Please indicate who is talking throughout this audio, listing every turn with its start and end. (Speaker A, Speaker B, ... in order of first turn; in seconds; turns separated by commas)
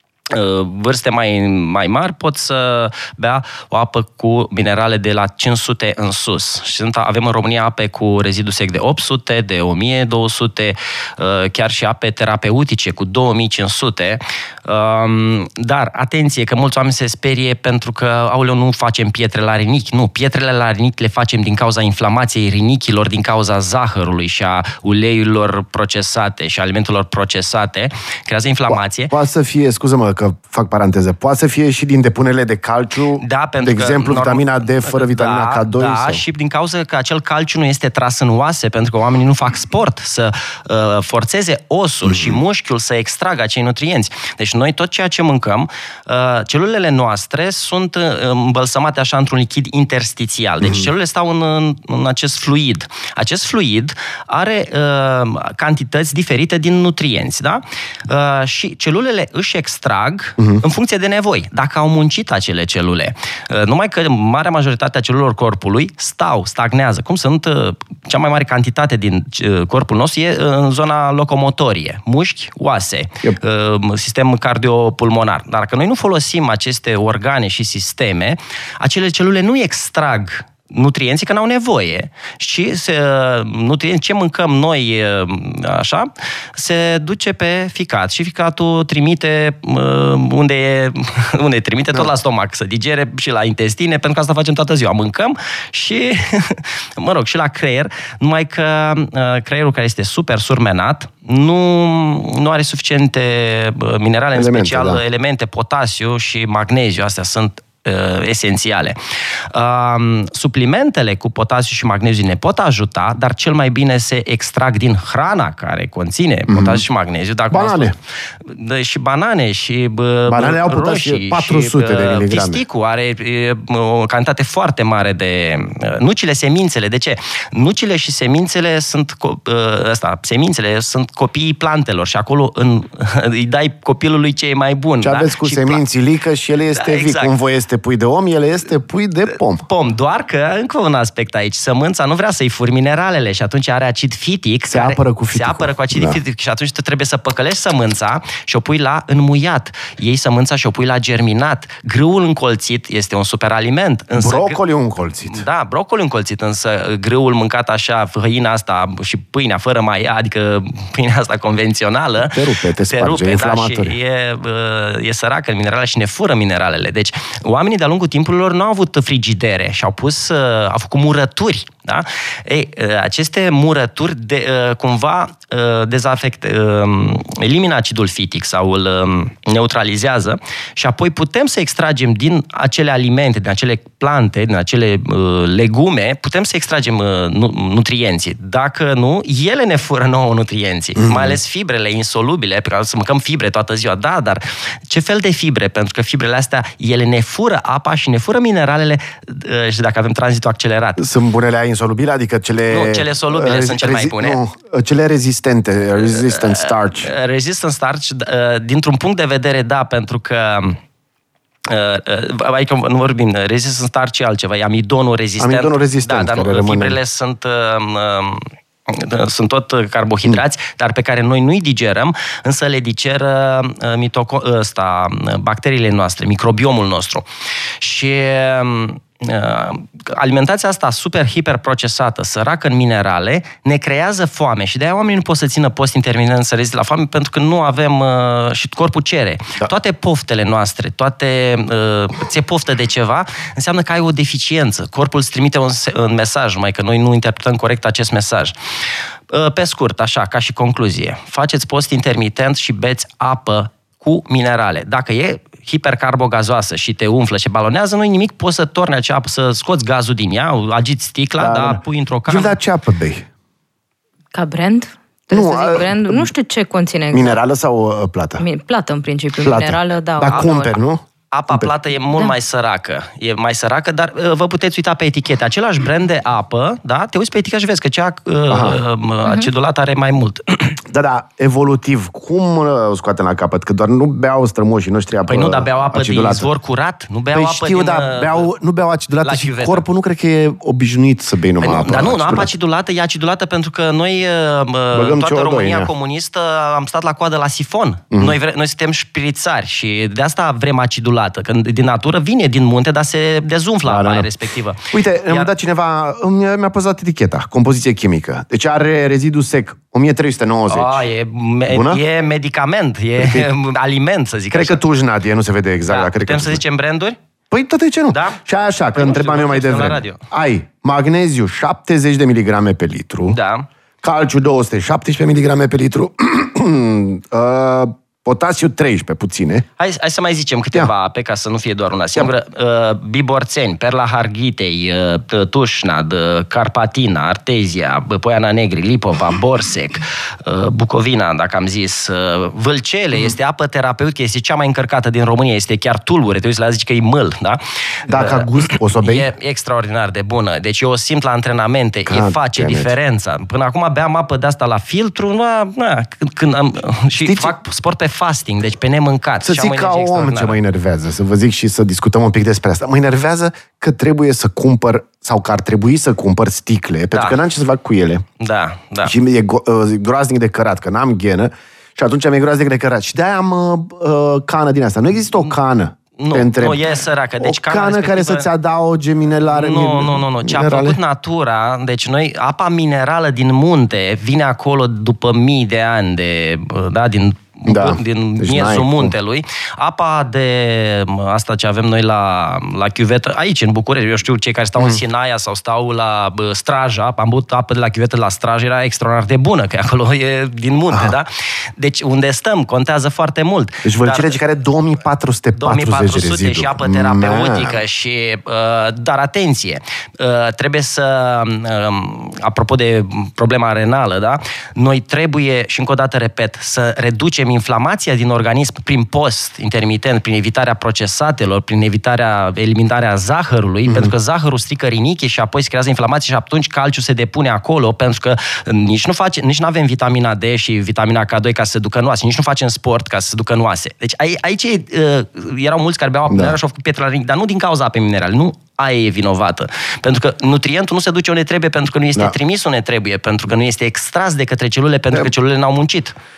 Speaker A: 0.3-29.1, Speaker B: 28.7-36.2, Speaker A: 33.2-109.0, Speaker B: 42.0-42.4, Speaker B: 50.6-50.9, Speaker B: 104.3-105.0, Speaker A: 109.5-135.8, Speaker B: 116.5-116.8, Speaker B: 117.5-117.9, Speaker B: 120.3-122.6, Speaker B: 135.0-139.6, Speaker A: 136.7-137.3, Speaker A: 139.6-154.6, Speaker B: 144.7-146.2, Speaker B: 154.2-155.4, Speaker A: 155.3-201.0, Speaker B: 162.2-163.9, Speaker B: 191.0-191.4, Speaker B: 201.0-207.1, Speaker A: 202.7-204.4, Speaker A: 206.1-210.8, Speaker A: 211.6-227.2, Speaker B: 215.4-217.0, Speaker A: 227.8-248.5, Speaker A: 249.3-262.6, Speaker B: 261.4-263.3, Speaker C: 264.3-267.4, Speaker B: 265.3-266.3, Speaker B: 267.1-268.4, Speaker C: 268.4-270.7, Speaker B: 269.4-271.7, Speaker A: 270.3-270.6, Speaker A: 271.3-280.8, Speaker B: 278.5-278.8, Speaker B: 280.9-286.5, Speaker A: 285.3-288.5, Speaker B: 287.3-292.5, Speaker A: 289.2-289.8, Speaker A: 291.6-305.5, Speaker B: 294.9-295.9, Speaker B: 303.8-304.3, Speaker B: 304.9-311.1, Speaker A: 310.7-314.8, Speaker B: 311.7-312.0, Speaker B: 313.2-313.5, Speaker B: 314.5-316.6, Speaker A: 315.9-317.2, Speaker B: 317.5-323.4, Speaker A: 318.1-318.4, Speaker A: 318.9-320.2, Speaker A: 323.3-323.7, Speaker B: 324.0-329.6, Speaker A: 329.8-360.6, Speaker B: 348.1-349.3, Speaker B: 352.1-352.9, Speaker B: 357.2-357.5, Speaker B: 359.4-368.2, Speaker A: 367.1-367.4, Speaker A: 368.4-369.1, Speaker B: 369.0-376.8, Speaker A: 376.2-378.5, Speaker B: 377.4-381.0, Speaker A: 379.5-404.3, Speaker B: 387.6-389.1, Speaker B: 394.8-395.0, Speaker B: 403.8-407.8, Speaker A: 405.5-446.2, Speaker B: 423.9-424.1, Speaker B: 436.3-436.6